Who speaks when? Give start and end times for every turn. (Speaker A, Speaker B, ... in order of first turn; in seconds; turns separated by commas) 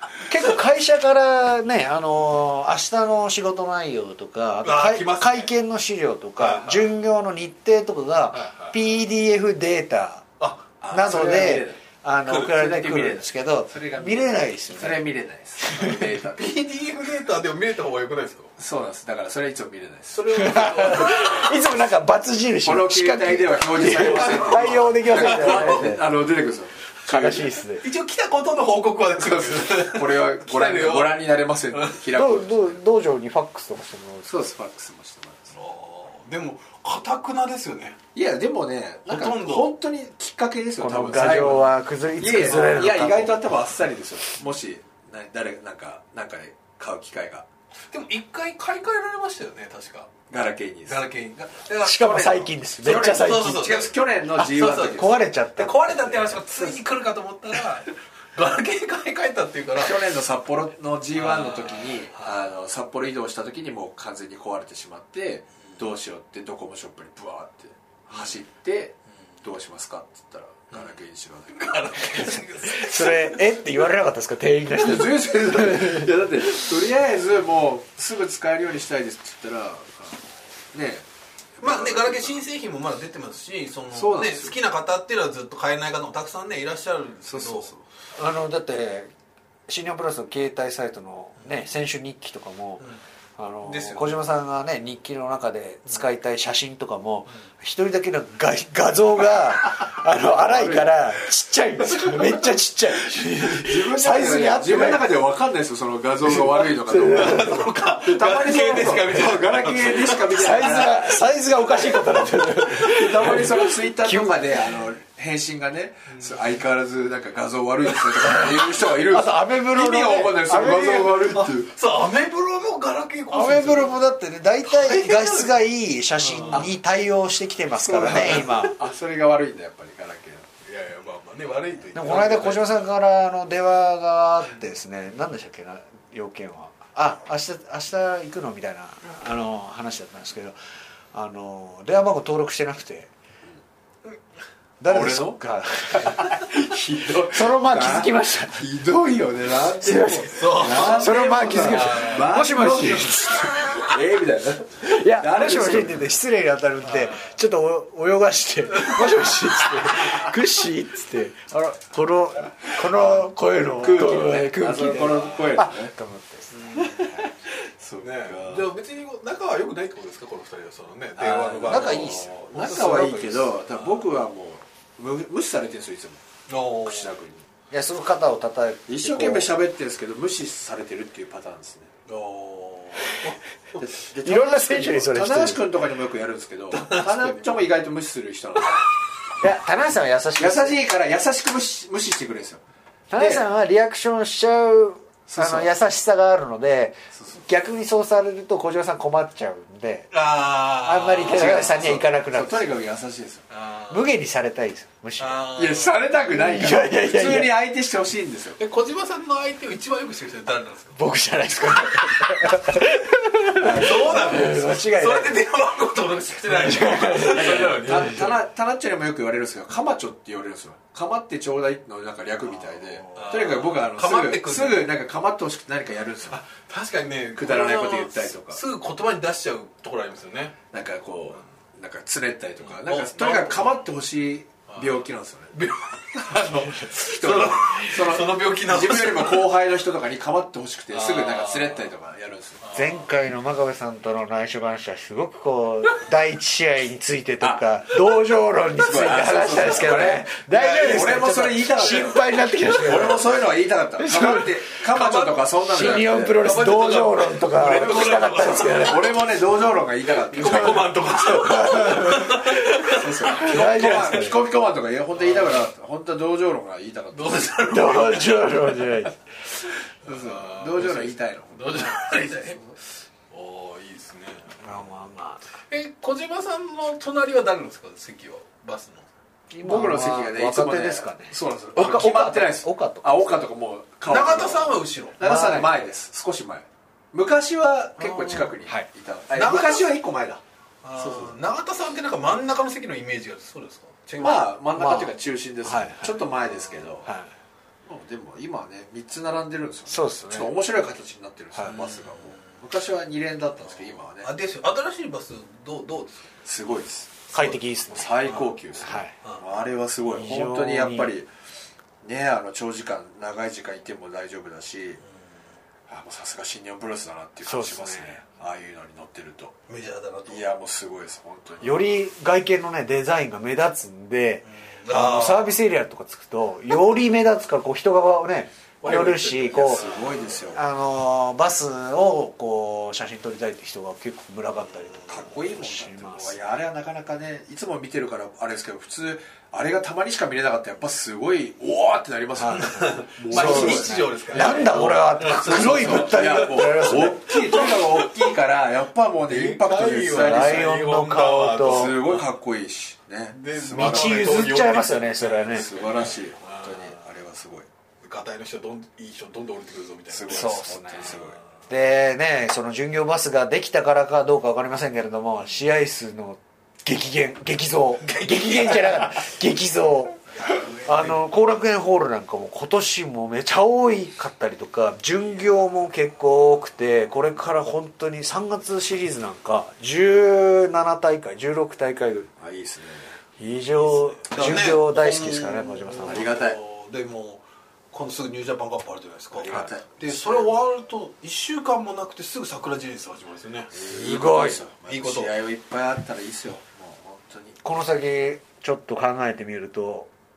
Speaker A: 0.3-10.3, Speaker B: 4.6-5.5, Speaker B: 6.4-6.9, Speaker B: 8.3-8.8, Speaker B: 10.4-11.6, Speaker C: 10.8-16.5, Speaker A: 10.9-15.1, Speaker A: 15.6-16.1, Speaker B: 16.4-18.5, Speaker C: 18.6-20.4, Speaker B: 20.1-21.6, Speaker A: 20.3-26.0, Speaker C: 22.6-27.6, Speaker B: 24.1-26.0, Speaker A: 27.1-27.8, Speaker B: 27.8-32.0, Speaker C: 29.2-32.8, Speaker A: 32.1-34.3, Speaker C: 34.3-35.5, Speaker B: 35.5-38.0, Speaker C: 38.1-47.5, Speaker B: 39.1-39.7, Speaker A: 40.8-43.4, Speaker B: 47.9-50.1, Speaker C: 50.3-51.0, Speaker B: 50.9-60.0, Speaker A: 51.8-53.7, Speaker C: 52.8-55.2, Speaker A: 54.8-56.4, Speaker C: 59.8-72.3, Speaker B: 61.1-62.5, Speaker B: 68.1-68.4, Speaker B: 70.7-71.0, Speaker B: 71.5-73.5, Speaker A: 72.3-76.7, Speaker C: 74.8-81.1, Speaker C: 81.6-82.4, Speaker B: 81.6-87.7, Speaker C: 83.9-84.6, Speaker C: 87.3-87.8, Speaker A: 88.2-89.1, Speaker A: 89.7-105.1, Speaker B: 93.7-94.1, Speaker C: 100.4-101.1, Speaker C: 101.8-102.5, Speaker C: 103.1-111.2, Speaker A: 106.3-107.8, Speaker B: 106.9-110.9, Speaker A: 110.3-114.8, Speaker C: 112.7-121.7, Speaker B: 116.1-116.4, Speaker A: 118.2-121.4, Speaker B: 121.4-124.0, Speaker A: 123.3-128.8, Speaker B: 124.7-125.6, Speaker B: 126.2-126.7, Speaker C: 127.8-130.5, Speaker B: 130.6-132.9, Speaker A: 131.9-140.6, Speaker A: 141.1-143.1, Speaker A: 144.8-146.4, Speaker C: 144.9-156.1, Speaker A: 147.3-148.6, Speaker A: 149.8-154.0, Speaker B: 150.3-152.3, Speaker A: 154.8-167.1, Speaker B: 156.8-157.3, Speaker B: 158.7-159.4, Speaker C: 162.7-163.1, Speaker C: 163.8-165.9, Speaker B: 166.5-167.2, Speaker C: 166.9-168.7, Speaker B: 168.0-174.0, Speaker C: 171.2-176.2, Speaker A: 171.6-172.4, Speaker B: 176.5-177.1, Speaker C: 176.8-177.4, Speaker A: 177.7-179.5, Speaker C: 178.9-181.9, Speaker B: 182.1-183.8, Speaker C: 183.8-188.9, Speaker A: 184.2-185.6, Speaker B: 186.7-187.4, Speaker A: 189.4-190.8, Speaker C: 190.4-192.6, Speaker A: 193.1-200.1, Speaker C: 193.1-193.5, Speaker C: 195.3-195.7, Speaker B: 200.1-201.9, Speaker A: 200.8-202.7, Speaker C: 201.2-203.4, Speaker B: 203.5-204.1, Speaker A: 203.9-205.5, Speaker B: 205.2-206.0, Speaker C: 205.6-208.6, Speaker A: 206.3-207.5, Speaker B: 208.6-211.0, Speaker A: 211.0-215.4, Speaker C: 213.6-214.6, Speaker B: 213.6-218.3, Speaker A: 216.4-218.4, Speaker C: 217.2-226.4, Speaker B: 223.1-224.9, Speaker B: 226.3-230.6, Speaker C: 227.4-228.6, Speaker C: 230.7-235.6, Speaker B: 232.7-233.8, Speaker B: 234.7-239.5, Speaker C: 236.2-242.6, Speaker B: 240.9-241.9, Speaker B: 242.6-243.1, Speaker A: 242.7-253.4, Speaker C: 248.8-256.6, Speaker A: 254.0-254.6, Speaker B: 254.9-258.9, Speaker A: 255.7-259.2, Speaker C: 257.6-261.0, Speaker B: 260.3-264.3, Speaker A: 261.1-262.5, Speaker C: 262.8-267.9, Speaker A: 263.3-264.4, Speaker B: 265.2-265.7, Speaker B: 267.1-268.8, Speaker A: 267.7-269.1, Speaker C: 270.1-272.6, Speaker B: 270.1-272.6, Speaker B: 273.3-274.6, Speaker A: 274.6-275.5, Speaker B: 275.7-279.1, Speaker A: 279.5-283.4, Speaker C: 279.6-290.4, Speaker B: 284.1-285.2, Speaker A: 285.2-285.8, Speaker B: 288.0-288.5, Speaker B: 289.3-289.9, Speaker B: 290.8-294.5, Speaker C: 291.0-291.4, Speaker C: 294.2-297.1, Speaker A: 294.8-296.2, Speaker A: 297.0-297.3, Speaker C: 297.9-304.3, Speaker A: 299.9-300.5, Speaker A: 301.5-301.8, Speaker B: 301.7-302.6, Speaker B: 303.6-306.3, Speaker C: 306.4-311.3, Speaker A: 307.3-308.2, Speaker B: 308.3-308.5, Speaker A: 308.8-309.1, Speaker A: 310.1-311.1, Speaker C: 312.0-315.0, Speaker C: 315.9-319.6, Speaker A: 317.4-318.2, Speaker B: 319.7-320.5, Speaker C: 320.3-321.8, Speaker A: 321.6-329.9, Speaker B: 324.4-325.6, Speaker B: 328.8-330.3, Speaker C: 329.5-330.6, Speaker A: 330.5-336.6, Speaker C: 335.0-350.7, Speaker A: 342.4-347.2, Speaker B: 342.5-346.4, Speaker B: 347.3-348.1, Speaker B: 349.2-352.3, Speaker A: 350.1-352.0, Speaker C: 351.6-354.5, Speaker B: 353.3-357.0, Speaker A: 353.7-355.7, Speaker C: 355.5-357.7, Speaker B: 358.0-361.4, Speaker C: 360.1-361.4, Speaker A: 360.3-361.2, Speaker A: 361.7-382.3, Speaker B: 368.0-369.3, Speaker B: 370.4-371.2, Speaker C: 382.4-383.1, Speaker A: 383.4-386.3, Speaker B: 383.8-394.0, Speaker C: 386.1-386.6, Speaker C: 389.4-390.5, Speaker C: 393.7-397.6, Speaker A: 393.9-394.6, Speaker B: 394.9-395.4, Speaker A: 397.6-400.1